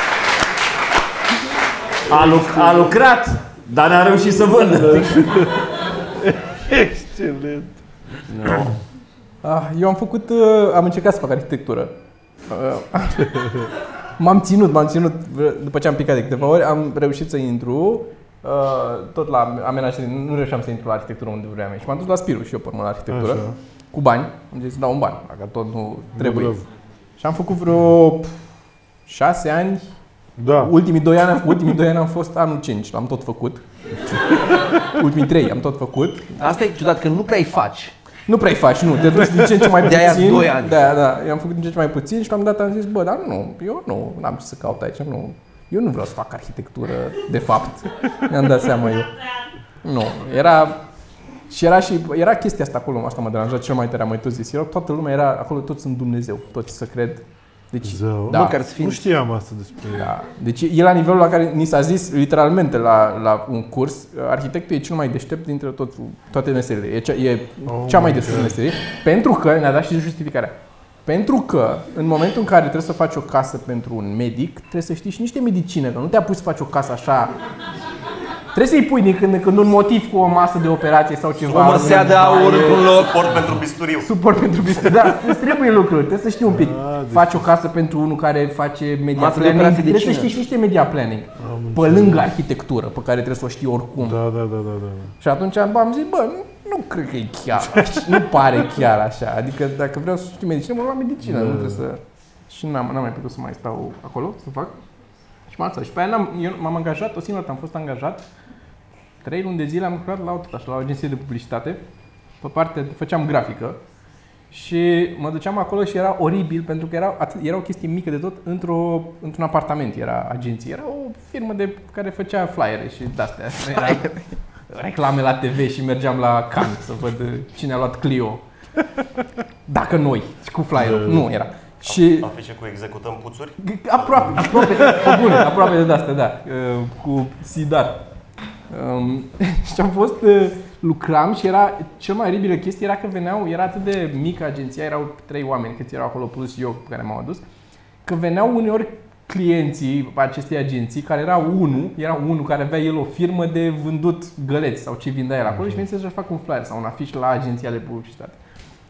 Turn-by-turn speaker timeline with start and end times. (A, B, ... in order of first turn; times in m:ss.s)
0:02.1-0:05.5 A
0:02.1-0:02.8 B
0:05.0-0:05.5 B
0:06.3-0:07.7 B
0:08.3-0:08.7 A
0:09.4-0:11.9 C
0:12.5-0:26.6 C
0:23.1-0:23.6 B
0:26.2-0:26.6 B
0:27.2-0:28.4 C
0:29.1-0:29.9 C
0:30.4-0:30.7 B
0:30.6-0:33.6 C
0:34.5-0:36.4 C
0:36.4-0:37.9 D
0:38.3-0:49.1 C
0:39.7-0:40.9 D
0:49.8-0:50.8 C
0:51.5-0:58.5 C
0:57.8-1:00.1 B
0:58.3-0:59.0 D
1:00.0-1:17.3 C
1:07.6-1:08.6 B
1:18.5-1:22.9 C
1:21.4-1:23.3 D
1:22.4-1:24.1 E
1:24.0-1:34.2 C
1:26.5-1:27.4 B
1:29.1-1:30.3 D
1:31.4-1:32.3 B
1:34.0-1:35.1 B
1:35.2-1:44.7 C
1:37.7-1:38.0 B
1:41.2-1:41.8 B
1:45.5-1:48.2 C
1:49.2-1:51.8 C
1:52.4-1:53.8 C
1:54.5-2:08.4 C
2:09.7-2:12.3 C
2:10.8-2:11.3 B
2:11.8-2:13.6 E
2:13.6-2:18.0 C
2:14.4-2:15.4 B
2:18.7-2:27.4 C
2:28.0-2:38.4 C
2:35.5-2:35.8 B